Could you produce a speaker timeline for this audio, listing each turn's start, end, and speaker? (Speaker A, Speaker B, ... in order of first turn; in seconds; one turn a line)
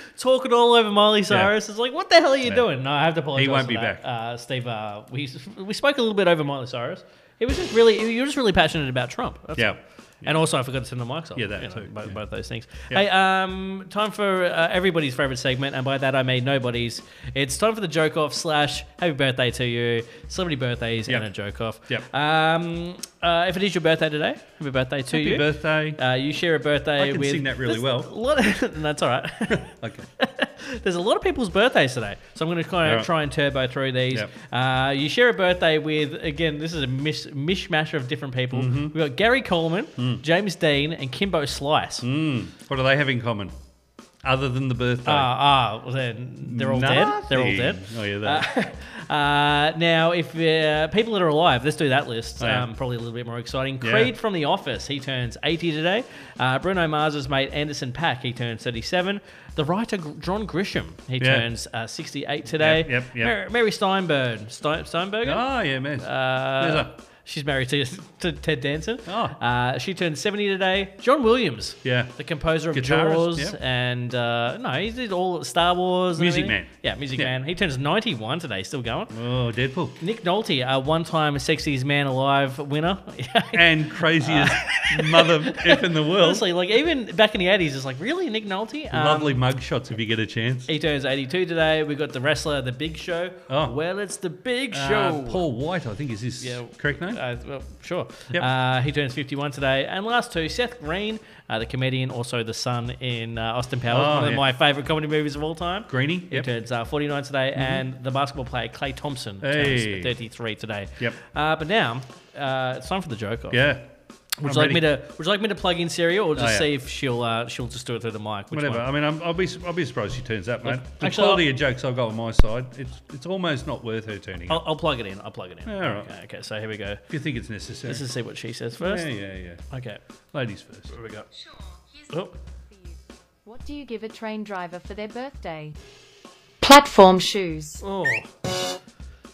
Speaker A: 0.1-42.1
Speaker B: 3.3-4.0
Speaker B: 9.6-10.4
Speaker B: 11.3-12.2
Speaker B: 25.1-26.0
Speaker B: 27.0-28.1
Speaker B: 29.5-30.1
Speaker B: 32.8-33.1
Speaker B: 38.5-39.0
Speaker B: 40.0-40.2
Speaker B: 42.0-43.5
Speaker B: 44.2-45.3
Speaker A: 45.1-65.5
Speaker B: 46.4-48.5
Speaker B: 52.4-52.7
Speaker B: 53.8-54.1
Speaker B: 61.2-61.5
Speaker B: 62.6-63.3
Speaker B: 65.2-66.9
Speaker A: 66.0-79.1
Speaker B: 69.1-69.4
Speaker B: 71.8-72.1
Speaker B: 72.7-73.6
Speaker B: 76.2-77.3
Speaker B: 79.1-80.0
Speaker A: 80.0-89.4
Speaker B: 83.5-86.5
Speaker B: 88.9-90.7
Speaker A: 90.7-95.4
Speaker B: 93.5-93.8
Speaker B: 94.7-97.2
Speaker A: 96.4-113.6
Speaker B: 103.9-104.5
Speaker B: 105.9-106.5
Speaker B: 107.6-107.8
Speaker B: 109.4-110.2
Speaker B: 113.5-113.9
Speaker A: 114.4-118.9
Speaker B: 114.4-114.9
Speaker B: 116.4-116.7
Speaker B: 118.5-124.6
Speaker A: 120.7-121.5
Speaker A: 124.5-127.0
Speaker B: 125.7-126.1
Speaker B: 127.1-128.0
Speaker A: 127.9-129.1
Speaker B: 128.8-129.6
Speaker A: 129.7-130.0
Speaker B: 130.3-130.9
Speaker A: 130.9-131.3
Speaker A: 132.1-132.4
Speaker C: 133.4-135.8
Speaker C: 136.6-137.8
Speaker A: 137.8-138.3